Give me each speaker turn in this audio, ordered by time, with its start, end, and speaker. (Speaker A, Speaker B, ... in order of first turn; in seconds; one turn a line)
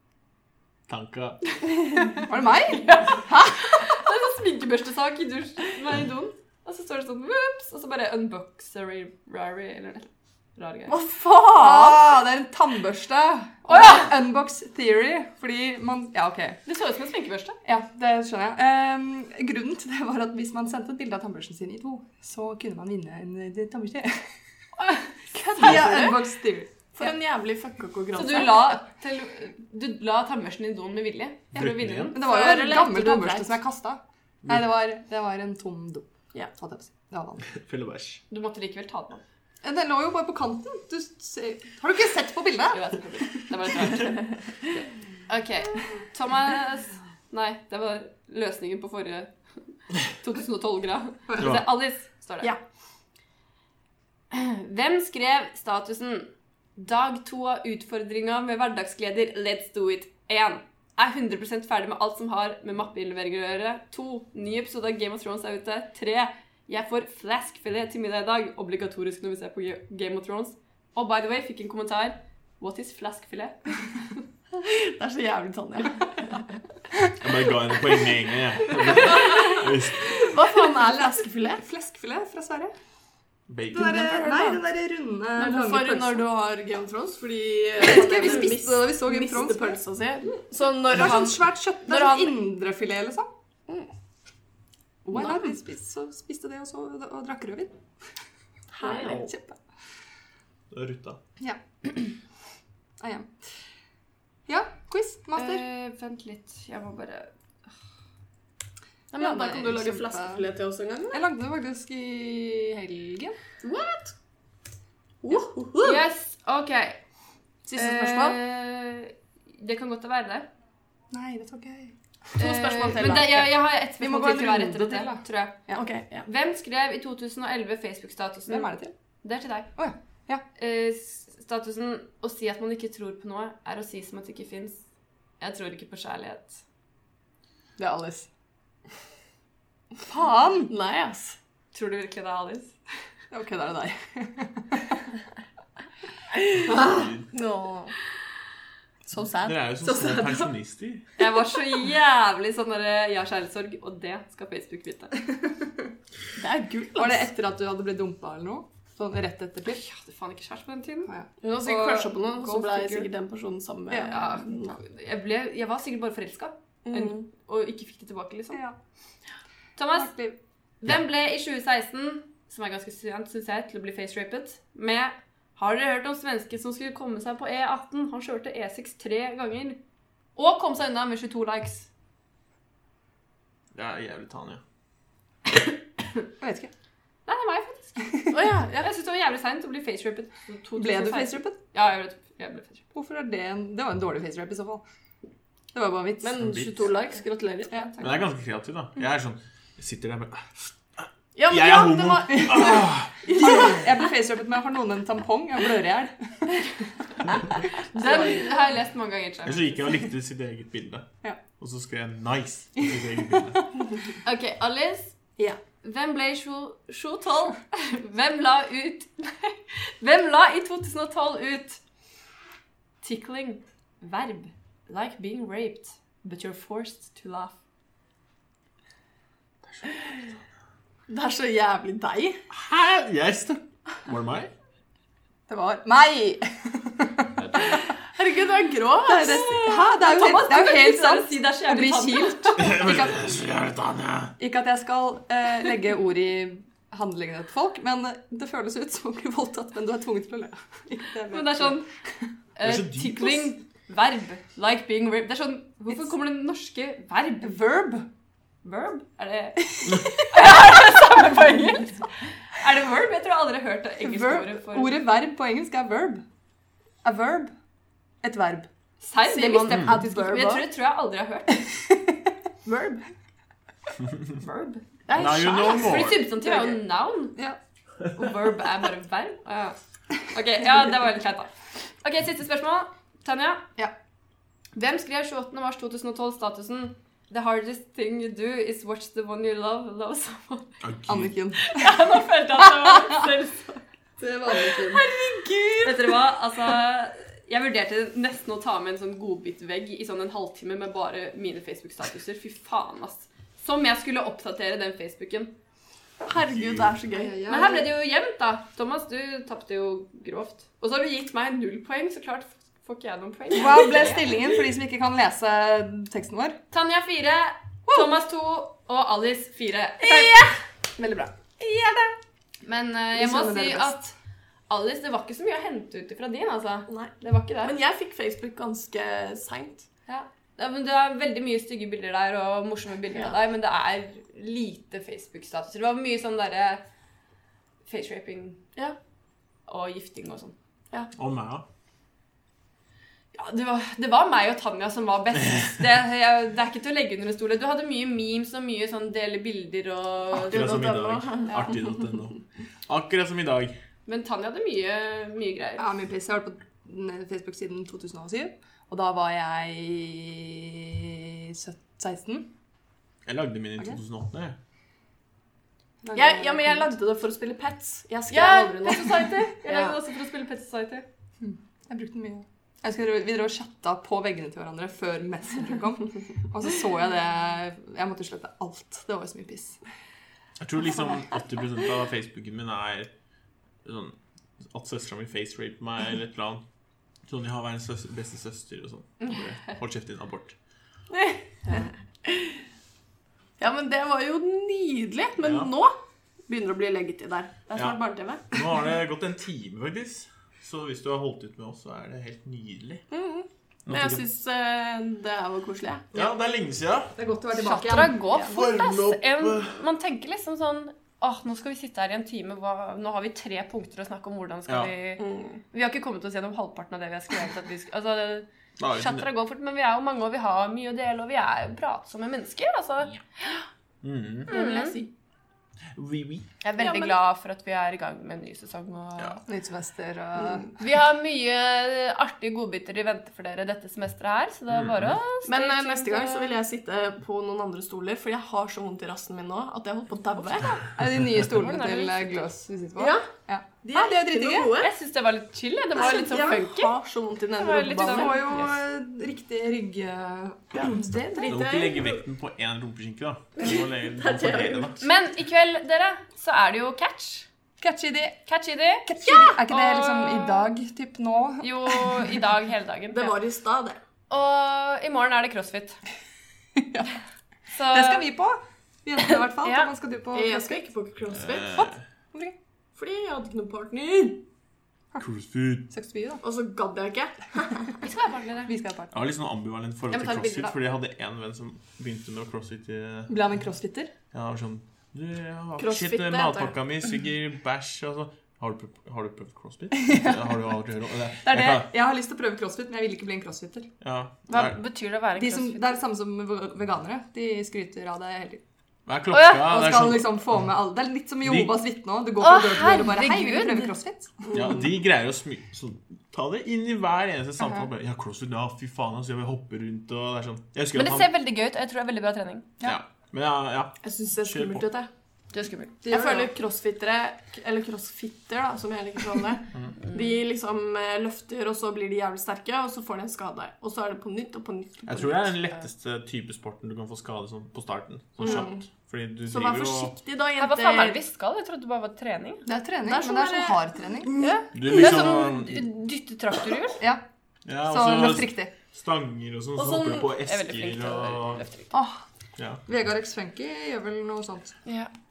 Speaker A: 0.9-1.4
Speaker B: 2.2-3.0
Speaker C: 2.7-11.0
Speaker D: 3.3-3.6
Speaker D: 10.9-12.0
Speaker B: 11.6-16.6
Speaker C: 13.7-14.1
Speaker C: 16.7-17.6
Speaker B: 17.6-24.2
Speaker B: 25.3-26.7
Speaker D: 25.6-26.2
Speaker D: 26.9-28.8
Speaker C: 28.1-33.2
Speaker A: 31.6-32.2
Speaker B: 32.1-37.5
Speaker D: 32.2-33.5
Speaker A: 37.5-38.2
Speaker C: 38.3-39.2
Speaker B: 39.6-43.4
Speaker C: 42.7-44.4
Speaker C: 45.3-49.3
Speaker C: 50.1-52.5
Speaker A: 51.4-51.7
Speaker C: 54.3-73.7
Speaker D: 74.6-76.4
Speaker A: 77.2-80.2
Speaker D: 79.1-81.6
Speaker B: 81.6-82.7
Speaker A: 83.5-84.1
Speaker B: 83.7-86.2
Speaker D: 83.8-84.6
Speaker D: 85.4-92.4
Speaker B: 87.8-89.8
Speaker B: 90.9-93.3
Speaker B: 95.0-97.7
Speaker D: 95.1-95.5
Speaker D: 98.7-99.3
Speaker B: 98.8-99.6
Speaker A: 100.7-101.2
Speaker B: 101.4-102.2
Speaker B: 103.0-103.3
Speaker B: 104.5-105.6
Speaker C: 105.3-107.3
Speaker D: 109.1-111.2
Speaker B: 109.2-110.5
Speaker B: 111.1-113.4
Speaker D: 113.6-114.1
Speaker D: 115.2-116.0
Speaker C: 115.8-117.0
Speaker D: 117.7-118.4
Speaker C: 117.7-120.5
Speaker B: 121.1-122.0
Speaker D: 122.4-123.5
Speaker C: 122.4-125.7
Speaker B: 124.0-125.2
Speaker D: 125.7-126.3
Speaker C: 126.3-129.7
Speaker B: 128.5-128.9
Speaker B: 129.8-130.4
Speaker C: 130.6-134.8
Speaker C: 135.4-136.6
Speaker B: 137.8-138.3
Speaker B: 140.1-140.7
Speaker D: 140.7-141.4
Speaker C: 141.7-142.7
Speaker B: 143.3-145.0
Speaker D: 146.7-147.9
Speaker A: 146.7-147.2
Speaker D: 149.1-150.5
Speaker A: 149.4-151.0
Speaker C: 151.2-155.2
Speaker D: 156.4-157.3
Speaker B: 157.0-159.8
Speaker C: 159.7-161.1
Speaker B: 161.1-163.1
Speaker D: 161.4-164.8
Speaker B: 163.9-164.2
Speaker C: 163.9-168.6
Speaker D: 166.9-167.2
Speaker C: 169.8-170.1
Speaker B: 169.9-170.4
Speaker C: 170.8-179.8
Speaker C: 180.4-181.9
Speaker A: 183.7-184.6
Speaker B: 186.4-186.7
Speaker C: 187.3-188.2
Speaker D: 188.3-188.9
Speaker C: 188.8-192.8
Speaker B: 190.8-191.6
Speaker B: 192.9-194.8
Speaker B: 195.7-196.4
Speaker D: 196.2-197.9
Speaker A: 196.4-196.7
Speaker A: 198.0-203.6
Speaker D: 201.3-204.0
Speaker B: 202.3-202.8
Speaker B: 203.3-206.5
Speaker C: 207.9-210.0
Speaker D: 207.9-208.5
Speaker A: 209.4-213.6
Speaker B: 213.3-213.6
Speaker C: 214.2-221.8
Speaker C: 223.0-227.6
Speaker A: 229.7-230.0
Speaker D: 231.1-232.4
Speaker A: 232.5-234.5
Speaker B: 235.5-237.8
Speaker D: 237.8-239.8
Speaker B: 239.1-243.2
Speaker C: 239.3-242.8
Speaker A: 242.6-244.4
Speaker B: 244.4-252.3
Speaker C: 251.3-251.9
Speaker C: 252.6-257.6
Speaker A: 252.6-253.5
Speaker B: 257.4-258.1
Speaker C: 258.6-265.0
Speaker B: 264.0-266.2
Speaker B: 267.0-267.5
Speaker B: 268.2-268.7
Speaker C: 269.0-271.6
Speaker D: 269.2-270.7
Speaker A: 269.7-270.0
Speaker D: 272.6-273.0
Speaker C: 274.4-274.8
Speaker D: 275.1-276.8
Speaker A: 275.1-276.2
Speaker C: 275.6-277.4
Speaker C: 278.2-283.7
Speaker C: 284.8-290.8
Speaker A: 290.8-291.4
Speaker B: 291.1-293.2
Speaker C: 291.6-293.8
Speaker B: 294.2-295.9
Speaker C: 295.0-305.6
Speaker D: 306.3-307.5
Speaker B: 307.1-307.9
Speaker C: 307.5-314.3
Speaker B: 313.5-316.6
Speaker C: 316.7-320.4
Speaker D: 320.0-321.1
Speaker D: 321.6-322.1
Speaker C: 322.6-324.0
Speaker B: 323.1-324.1
Speaker C: 324.7-327.8
Speaker D: 327.6-329.9
Speaker C: 330.1-336.8
Speaker C: 337.9-338.6
Speaker C: 339.7-340.6
Speaker A: 341.1-341.6
Speaker C: 343.3-350.8
Speaker A: 350.3-353.8
Speaker D: 350.5-352.2
Speaker C: 354.1-355.9
Speaker B: 355.8-362.5
Speaker A: 363.3-364.6
Speaker B: 366.0-366.9
Speaker D: 366.1-370.0
Speaker C: 368.3-371.1
Speaker B: 371.4-379.8
Speaker A: 380.6-383.1
Speaker A: 383.8-386.6
Speaker A: 387.3-390.6
Speaker D: 391.1-392.6
Speaker D: 393.6-395.9
Speaker A: 395.4-395.7
Speaker D: 396.5-398.7
Speaker A: 398.5-403.0
Speaker D: 403.1-406.2
Speaker A: 403.9-404.2
Speaker A: 406.1-407.1
Speaker B: 407.2-408.2
Speaker C: 407.5-423.6
Speaker A: 408.4-409.8
Speaker A: 414.7-414.9
Speaker D: 415.2-415.6
Speaker A: 418.8-419.3
Speaker A: 424.0-424.5
Speaker C: 424.5-425.0
Speaker D: 424.5-425.1
Speaker A: 425.9-426.5
Speaker C: 426.6-429.4
Speaker D: 426.8-427.2
Speaker B: 429.5-430.8
Speaker C: 430.8-436.6
Speaker A: 434.7-435.2
Speaker D: 435.5-440.9
Speaker B: 440.7-444.7
Speaker C: 441.5-442.5
Speaker D: 443.0-443.3
Speaker D: 443.9-444.9
Speaker C: 444.8-446.9
Speaker D: 446.0-448.4
Speaker C: 447.6-448.8
Speaker B: 447.9-451.2
Speaker D: 450.7-452.2
Speaker A: 451.4-455.0
Speaker D: 453.6-455.0
Speaker C: 455.0-457.5
Speaker B: 457.8-458.4
Speaker C: 458.5-460.7
Speaker B: 459.1-462.4
Speaker C: 461.6-463.4
Speaker D: 463.1-464.0
Speaker C: 464.3-466.0
Speaker B: 466.8-467.1
Speaker C: 467.7-468.3
Speaker B: 467.9-470.8
Speaker C: 469.6-469.9
Speaker D: 470.3-471.9
Speaker A: 471.4-472.0
Speaker B: 471.8-472.6
Speaker D: 472.9-474.4
Speaker A: 475.2-475.9
Speaker B: 475.9-476.4
Speaker D: 476.4-478.0
Speaker C: 478.0-478.7
Speaker B: 478.7-479.1
Speaker A: 479.1-483.4
Speaker D: 480.3-480.7
Speaker B: 483.3-484.1
Speaker A: 484.3-491.9
Speaker D: 485.8-486.7
Speaker B: 489.9-490.5
Speaker B: 491.4-493.9
Speaker A: 494.0-494.8
Speaker C: 494.5-495.9
Speaker B: 495.4-498.6
Speaker A: 499.1-500.6
Speaker C: 499.3-499.7
Speaker B: 499.5-504.5
Speaker A: 501.4-501.8
Speaker C: 502.4-503.9
Speaker A: 504.5-511.3
Speaker C: 510.9-512.7
Speaker A: 512.8-514.9
Speaker D: 514.0-515.1
Speaker C: 515.5-516.0
Speaker B: 516.0-516.5
Speaker D: 516.1-525.5
Speaker A: 525.1-530.1
Speaker D: 528.4-528.8
Speaker D: 529.5-531.2
Speaker C: 530.6-532.6
Speaker B: 532.7-534.4
Speaker D: 533.0-535.0
Speaker A: 534.7-535.9
Speaker C: 534.9-537.0
Speaker A: 537.6-541.6
Speaker B: 537.9-538.7
Speaker D: 539.8-540.3
Speaker C: 540.4-541.9
Speaker B: 541.9-542.2
Speaker B: 542.9-544.8
Speaker C: 544.9-545.1